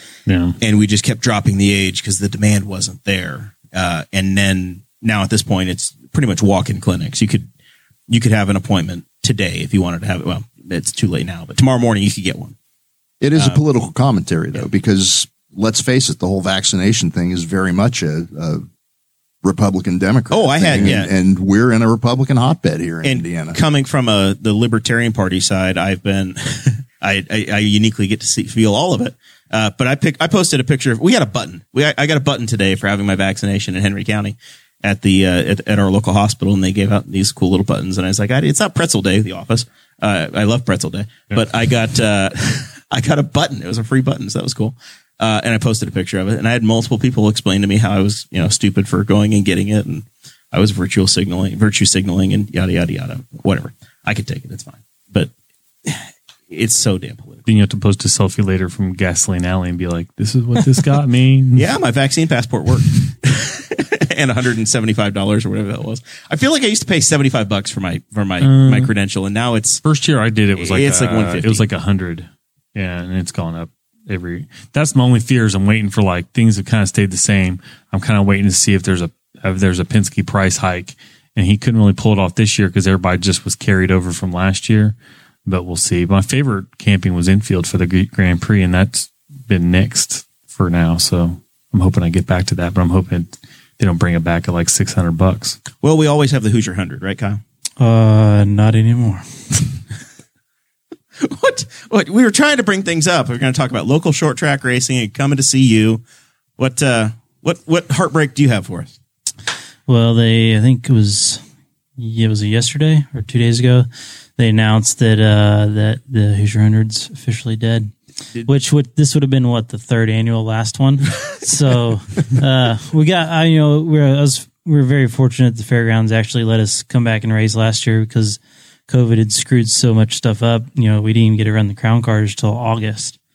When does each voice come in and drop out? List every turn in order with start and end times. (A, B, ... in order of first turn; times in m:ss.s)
0:00.3-0:00.6 A
0:00.6-0:07.5 B
0:08.1-0:12.6 B
0:13.2-0:18.6 C
0:19.4-0:23.6 C
0:20.3-0:21.1 B
0:23.0-0:55.3 B
0:55.8-0:57.4 B
0:57.4-1:01.7 A
1:01.6-1:09.8 B
1:08.4-1:08.9 A
1:09.8-1:35.6 A
1:10.6-1:11.6 B
1:35.8-1:37.4 B
1:37.8-1:39.6 D
1:41.2-1:46.0 B
1:46.6-1:49.0 B
1:49.9-1:51.4 D
1:52.0-1:57.9 D
1:58.5-2:13.2 D